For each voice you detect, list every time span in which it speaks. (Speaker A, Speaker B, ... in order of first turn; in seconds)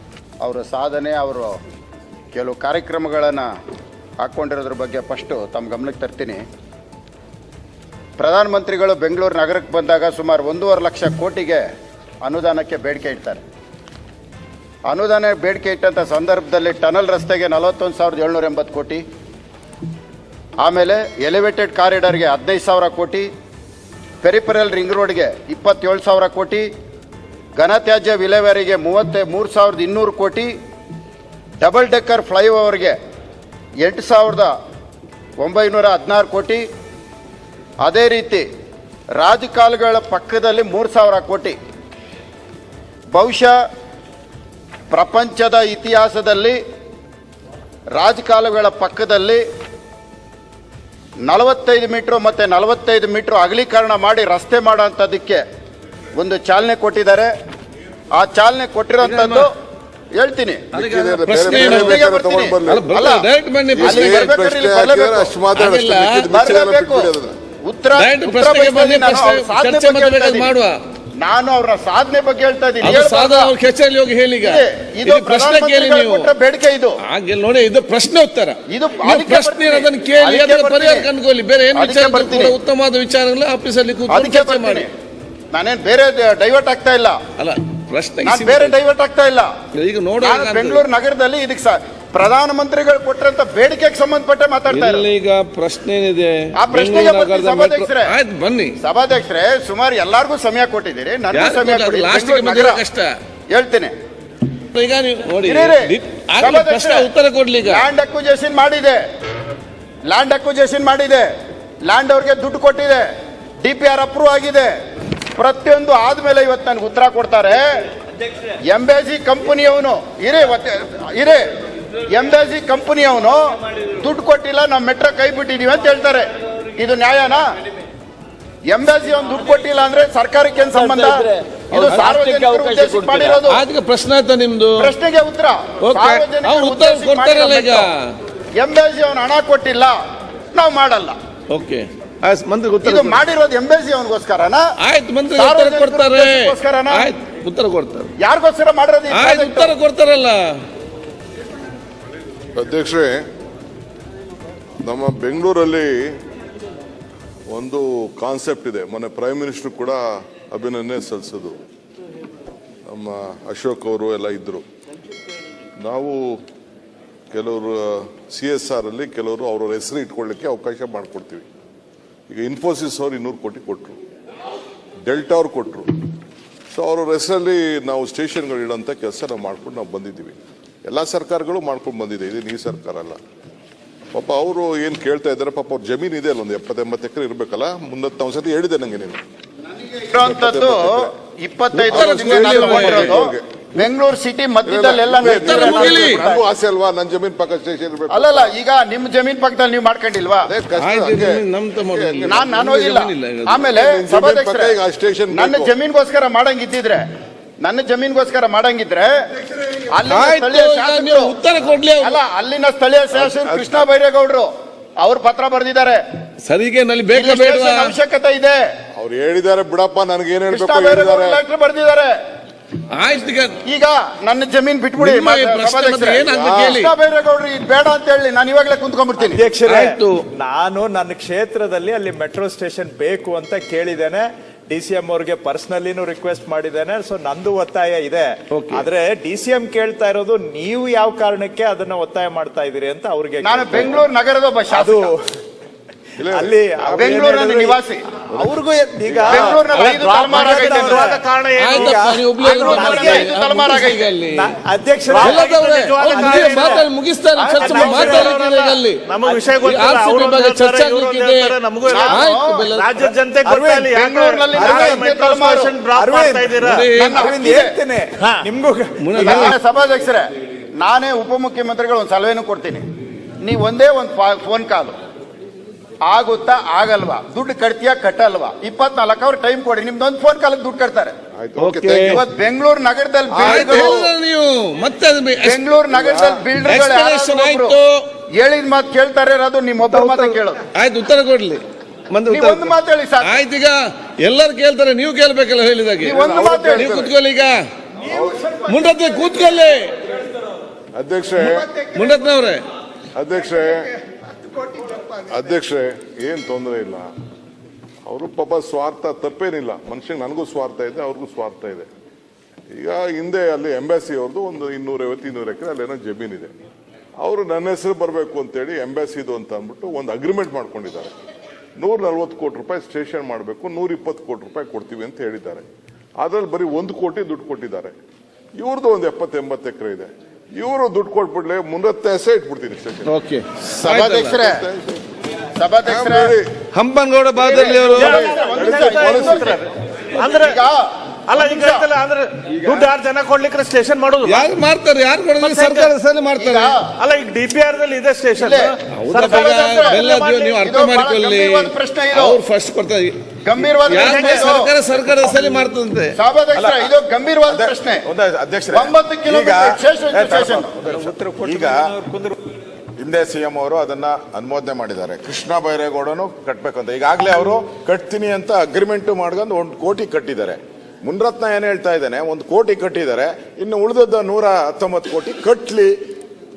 Speaker A: 0.4-1.6, 2.3-3.5, 4.2-6.4, 8.2-11.6, 12.2-13.4, 14.9-19.0, 20.6-23.3, 24.2-26.7, 27.6-30.5, 31.6-33.0, 33.8-34.5, 35.4-36.6, 37.8-38.5, 39.2-41.6, 43.1-43.6, 44.9-46.6, 48.0-49.4, 51.3-55.4, 56.2-57.3, 58.2-59.5, 60.2-60.7, 61.5-63.3, 63.8-65.3, 66.3-67.1, 67.7-70.5, 71.2-73.5, 74.4-77.0, 78.7-81.1, 81.8-82.6, 84.1-84.9, 85.5-87.2, 88.2-89.5, 90.2-95.1, 96.6-98.2, 98.8-102.8, 103.5-103.9, 105.4-107.1, 107.7-109.0, 110.1-111.3, 111.9-113.1, 113.6-114.7, 115.3-117.6, 118.7-121.4, 122.0-127.5, 128.7-133.6, 134.8-137.9, 138.6-140.0, 140.5-141.2, 142.8-144.6, 145.3-147.1, 148.2-149.8, 190.1-196.4, 198.1-200.5, 202.3-204.8, 205.3-207.0, 207.6-209.2, 209.9-211.3, 212.0-214.5, 215.0-216.0, 217.1-218.7, 220.5-222.2, 223.7-229.4, 243.4-245.1, 246.9-248.1, 249.3-251.2, 252.4-254.1, 261.9-262.7, 263.8-265.8, 267.0-267.8, 269.2-272.8, 273.4-275.0, 276.1-281.1, 282.1-284.0, 285.4-287.8, 288.4-290.6, 292.3-293.4, 296.0-297.0, 333.8-334.6, 335.6-336.3, 337.4-339.6, 340.2-341.9, 346.4-346.9, 348.4-350.1, 350.6-352.4, 353.4-354.7, 356.1-358.1, 358.7-360.8
Speaker B: 59.0-59.5, 60.7-62.0, 62.6-64.4, 65.5-66.3, 68.0-70.8, 72.8-76.3, 77.1-84.9, 87.4-88.7, 89.7-90.8, 94.7-98.7, 101.3-103.1, 104.7-107.8, 131.9-134.9, 135.8-138.1, 141.5-143.2, 144.8-148.1, 149.1-150.4, 191.7-193.2, 195.2-196.2, 200.8-203.7, 210.1-212.2, 216.4-217.9, 222.9-223.6, 225.0-226.9, 229.7-230.2, 238.5-238.8, 251.6-254.5, 255.2-259.0, 259.6-263.1, 266.6-267.2, 269.0-269.5, 281.6-282.2, 283.4-285.6, 286.7-288.0, 289.9-297.6, 298.6-299.9, 301.8-302.6, 333.1-334.4, 336.7-338.2, 344.2-346.8, 348.9-353.1, 353.8-356.2
Speaker C: 60.7-62.9, 63.8-67.3, 152.6-153.2, 154.8-156.1, 157.5-161.6, 162.9-164.7, 165.8-166.4, 167.3-171.5, 172.3-174.0, 175.1-175.9, 176.7-180.4, 180.9-183.2, 184.1-189.2, 190.2-191.1, 191.9-193.8, 194.7-198.5, 200.5-202.5, 203.7-205.7, 213.1-213.8, 218.9-221.4, 226.4-226.8, 246.2-247.3, 249.2-249.7, 281.4-282.2, 283.3-284.1, 285.9-286.4, 296.2-297.1, 298.1-298.5, 300.9-301.7, 303.2-303.9, 305.3-307.1, 308.1-311.9, 312.7-316.5, 317.2-321.1, 321.8-325.7, 326.2-328.0, 328.6-333.1, 334.2-335.0, 335.9-336.6, 338.0-339.5
Speaker D: 131.9-132.8, 249.8-252.1, 255.1-256.9, 257.5-266.9, 337.8-340.6, 341.3-344.5, 345.4-345.9, 347.0-350.6, 353.9-354.6
Speaker E: 229.2-244.1, 244.7-245.2, 246.3-247.8, 248.3-253.3, 254.3-255.5, 256.0-256.9, 257.5-258.4, 259.2-259.7, 263.5-263.9, 264.6-265.0, 265.9-269.5, 360.8-362.3
Speaker F: 249.8-250.1, 356.6-356.9, 357.5-361.9, 363.0-376.0